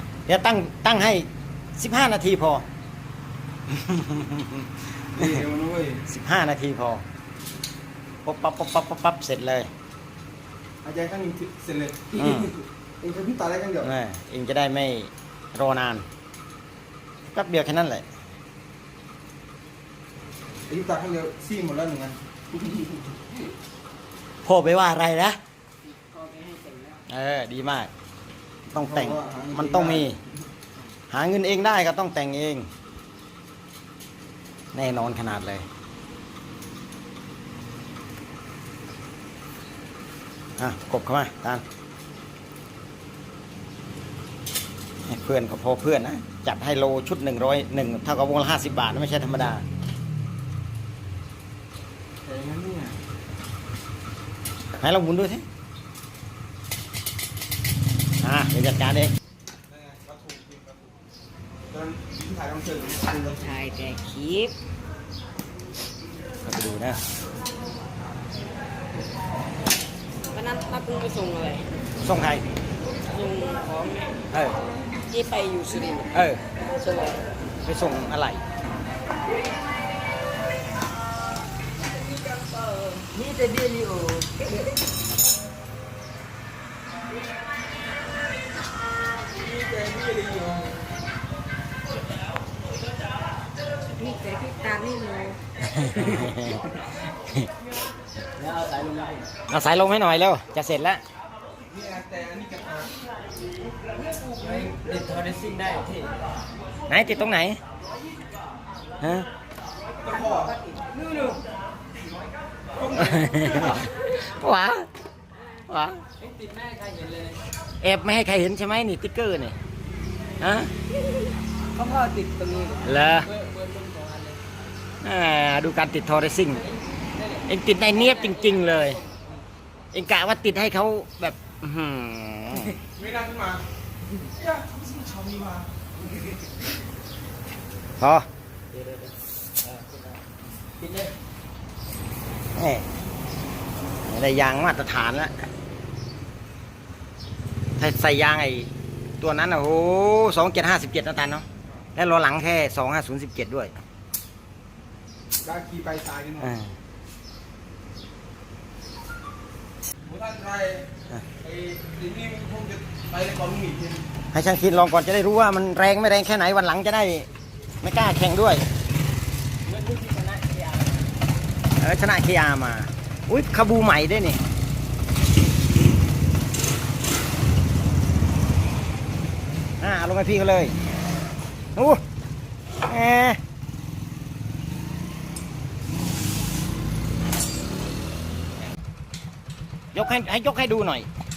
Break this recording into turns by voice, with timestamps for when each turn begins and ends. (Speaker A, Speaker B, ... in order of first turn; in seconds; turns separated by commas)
Speaker A: 0.3-2.7, Speaker A: 3.7-5.3, Speaker B: 5.2-6.0, Speaker A: 6.1-7.0, Speaker A: 8.2-9.7, Speaker B: 10.8-13.9, Speaker A: 12.2-12.5, Speaker A: 13.8-16.1, Speaker A: 17.3-18.1, Speaker B: 20.7-22.2, Speaker A: 24.4-25.4, Speaker C: 25.8-27.0, Speaker A: 27.1-27.9, Speaker A: 28.7-30.2, Speaker B: 28.8-30.1, Speaker A: 31.1-32.7, Speaker A: 34.7-35.7, Speaker A: 40.6-41.6, Speaker A: 45.1-49.6, Speaker B: 52.2-53.0, Speaker A: 54.8-55.5, Speaker A: 58.2-59.1, Speaker B: 59.7-61.0, Speaker B: 61.7-63.5, Speaker C: 62.8-64.6, Speaker A: 66.4-67.0, Speaker C: 70.3-71.7, Speaker A: 72.0-72.4, Speaker C: 73.1-74.2, Speaker A: 74.3-74.6, Speaker C: 75.1-76.1, Speaker A: 76.1-76.4, Speaker C: 76.7-77.3, Speaker A: 77.6-78.4, Speaker C: 81.9-84.6, Speaker B: 89.4-90.8, Speaker C: 93.9-95.4, Speaker A: 95.6-97.5, Speaker C: 98.4-99.2, Speaker A: 99.5-101.0, Speaker B: 101.7-102.9, Speaker C: 104.2-106.1, Speaker A: 106.9-107.6, Speaker A: 109.0-109.3, Speaker B: 110.0-110.7, Speaker C: 110.2-111.4, Speaker B: 112.8-113.8, Speaker A: 112.9-114.9, Speaker A: 115.7-116.0, Speaker C: 116.2-117.4, Speaker A: 117.8-119.6, Speaker A: 120.4-120.7, Speaker C: 121.8-124.4, Speaker A: 122.8-123.3, Speaker A: 125.0-126.7, Speaker C: 126.6-129.2, Speaker A: 127.5-129.0, Speaker A: 129.9-132.8, Speaker B: 132.9-133.7, Speaker B: 134.3-135.7, Speaker A: 138.0-138.3, Speaker C: 139.7-140.1, Speaker C: 140.8-141.1, Speaker A: 142.6-142.9, Speaker A: 144.1-145.5, Speaker A: 147.8-148.7, Speaker A: 149.2-151.4, Speaker A: 152.0-153.8, Speaker B: 155.4-156.5, Speaker A: 156.4-156.7, Speaker B: 160.1-160.9, Speaker B: 161.4-164.1, Speaker A: 164.3-167.3, Speaker A: 167.8-168.7, Speaker C: 169.7-171.0, Speaker A: 171.8-174.4, Speaker A: 179.8-180.8, Speaker A: 181.8-182.0, Speaker A: 182.8-183.4, Speaker A: 189.9-191.1